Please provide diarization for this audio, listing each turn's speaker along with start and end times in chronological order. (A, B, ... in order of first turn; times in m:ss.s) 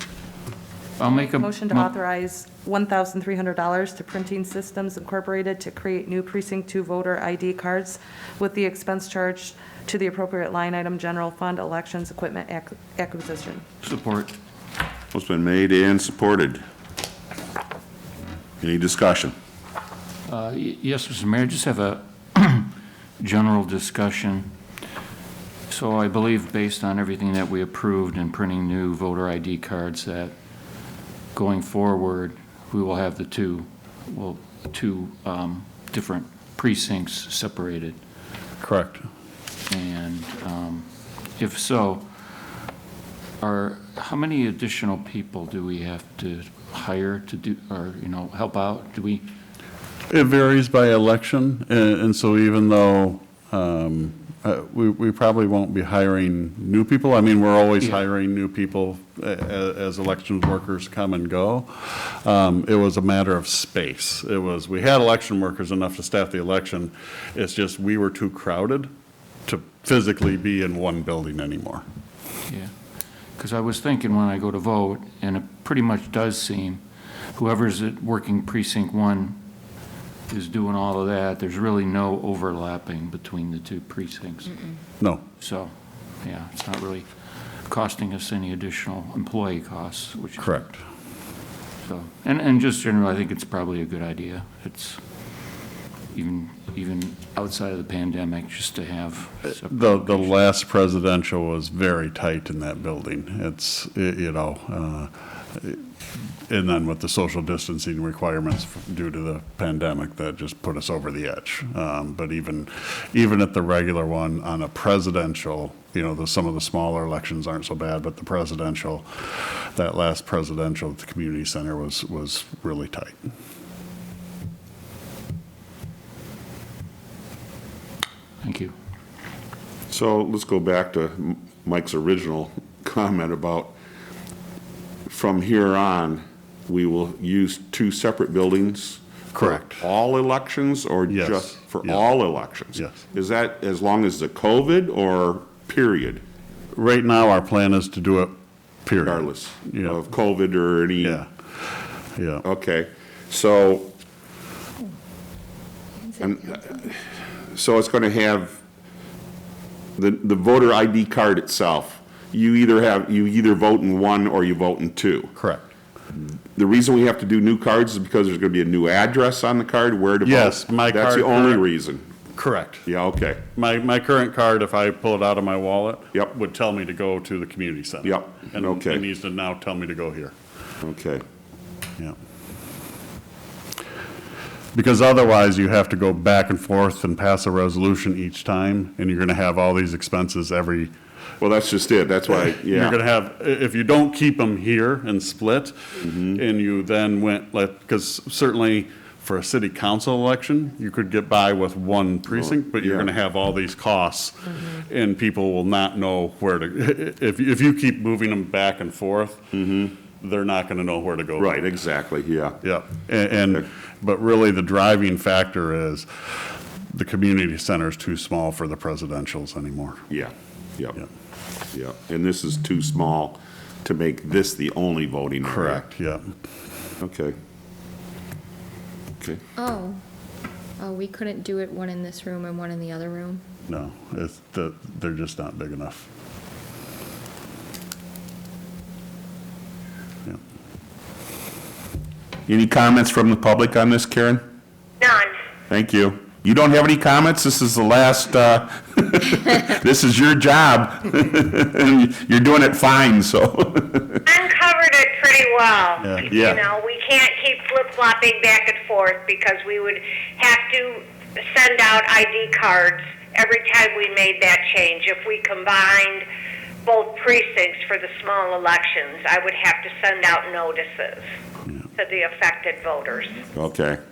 0:01.0-0:01.9 A
0:01.0-0:13.6 B
0:13.8-0:14.3 A
0:15.1-0:16.6 C
0:18.6-0:19.3 C
0:20.3-0:24.5 A
0:25.7-0:30.3 A
0:31.3-0:38.0 A
0:38.6-0:39.1 D
0:39.7-0:42.1 A
0:43.4-0:49.2 A
0:50.1-1:08.9 D
1:09.5-1:11.8 D
1:13.4-1:16.8 A
1:17.4-1:19.4 A
1:20.3-1:24.8 A
1:25.4-1:27.1 A
1:27.7-1:30.6 A
1:30.4-1:30.8 D
1:31.8-1:35.0 A
1:36.1-1:40.4 A
1:39.6-1:45.8 D
1:46.5-2:03.2 D
2:08.4-2:08.7 A
2:09.9-2:13.7 C
2:15.1-2:26.2 C
2:19.3-2:19.8 D
2:21.1-2:22.0 D
2:22.8-2:23.0 D
2:26.8-2:28.3 D
2:28.8-2:30.0 D
2:29.0-2:31.2 C
2:31.0-2:31.3 D
2:32.2-2:32.4 D
2:32.4-2:33.9 C
2:36.2-2:37.0 C
2:37.5-2:38.6 C
2:40.0-2:45.3 C
2:45.4-2:45.7 D
2:46.6-2:52.0 C
2:50.2-2:51.6 D
2:52.4-2:52.9 D
2:52.9-2:53.4 C
2:53.5-3:00.3 D
2:58.0-2:59.0 C
3:00.8-3:01.2 C
3:04.7-3:10.9 D
3:11.4-3:13.0 C
3:12.3-3:31.6 D
3:16.0-3:16.4 C
3:22.3-3:23.1 C
3:29.5-3:29.9 C
3:31.4-3:32.6 C
3:32.6-3:36.1 D
3:36.9-3:40.1 D
3:40.1-3:41.0 C
3:41.7-3:45.8 C
3:45.4-3:46.3 D
3:47.0-3:47.3 C
3:49.7-3:50.0 E
3:51.0-3:53.4 E
3:53.7-3:56.1 D
4:02.5-4:04.4 C
4:05.0-4:05.3 F
4:05.7-4:14.2 C
4:14.3-4:26.2 F
4:16.0-4:16.6 D
4:26.8-4:31.2 F
4:32.0-4:33.5 F
4:33.5-4:34.0 C